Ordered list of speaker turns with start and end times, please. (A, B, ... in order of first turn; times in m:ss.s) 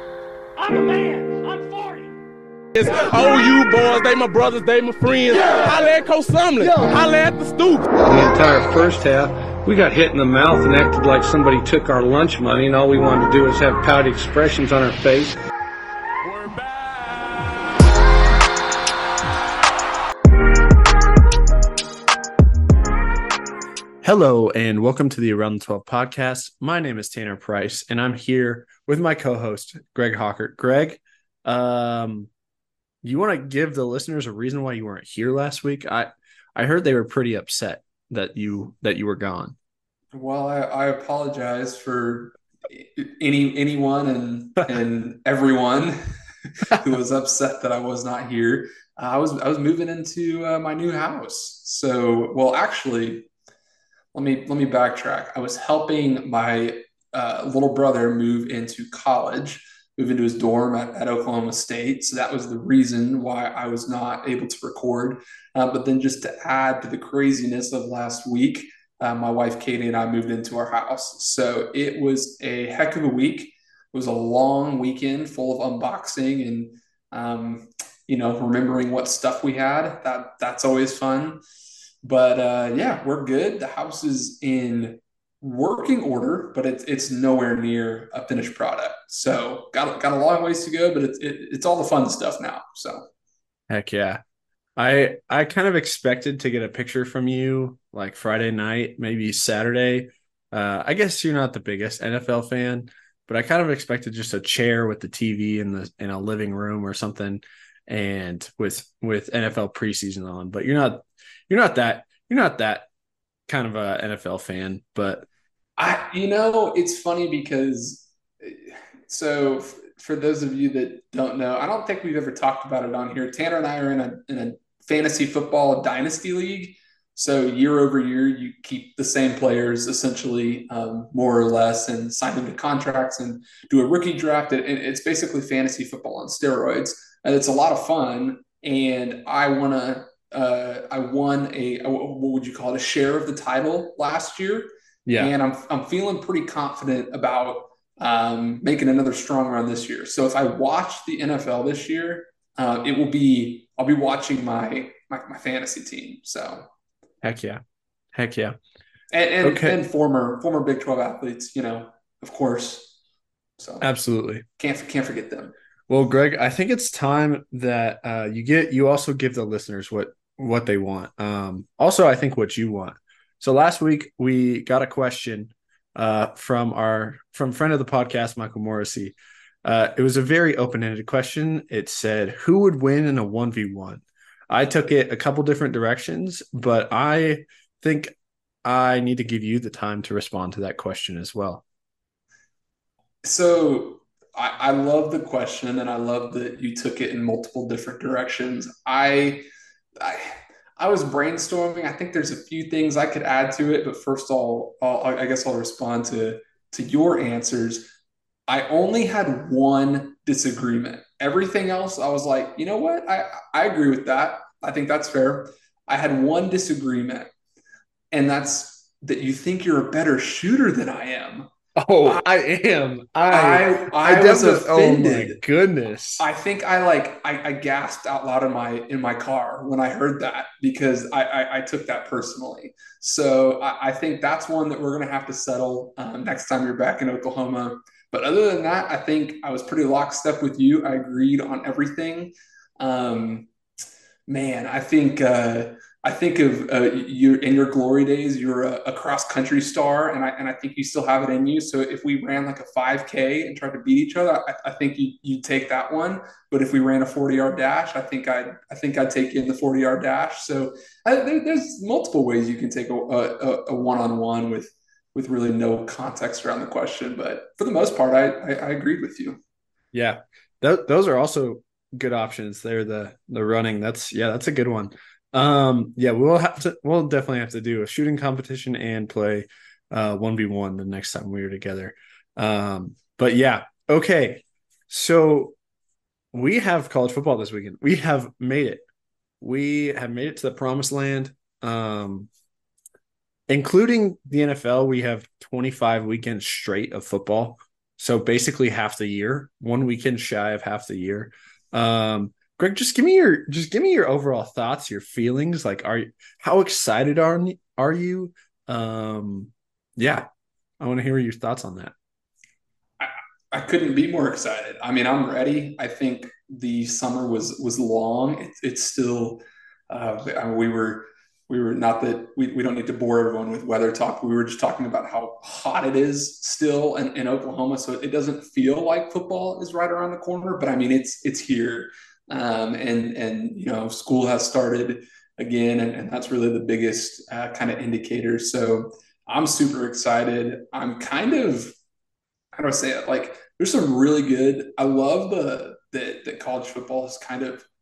0:00.6-0:02.1 A
0:02.7-0:07.9 B
0:02.8-0:03.1 A
0:05.3-0:05.6 A
0:08.0-0:15.4 C
0:16.2-0:17.7 B
0:24.0-0:32.3 D
0:33.0-0:39.5 D
0:40.1-0:46.0 E
0:46.7-0:53.3 E
0:54.1-1:21.4 E
1:22.0-1:33.0 E
1:33.7-1:34.2 D
1:34.8-1:52.9 D
1:53.5-1:55.3 D
1:55.8-2:36.7 E
2:25.0-2:25.3 D
2:37.2-2:37.6 D
2:38.1-2:38.6 D
2:39.1-2:42.9 E
2:39.4-2:39.8 D
2:43.6-2:43.9 E
2:43.8-2:44.4 D
2:44.6-2:45.5 E
2:45.9-3:11.6 D
3:13.2-3:19.4 E
3:20.0-3:27.9 E
3:28.5-3:37.3 E
3:38.1-3:41.5 E
3:41.8-3:46.2 D
3:43.3-3:45.4 E
3:46.2-4:03.5 E
4:04.3-4:29.4 E
4:29.9-4:45.6 D
4:46.3-4:48.8 D
4:49.4-4:52.3 D
4:53.5-5:10.3 D
5:10.8-5:11.9 D
5:13.0-5:41.7 E
5:42.5-5:47.6 E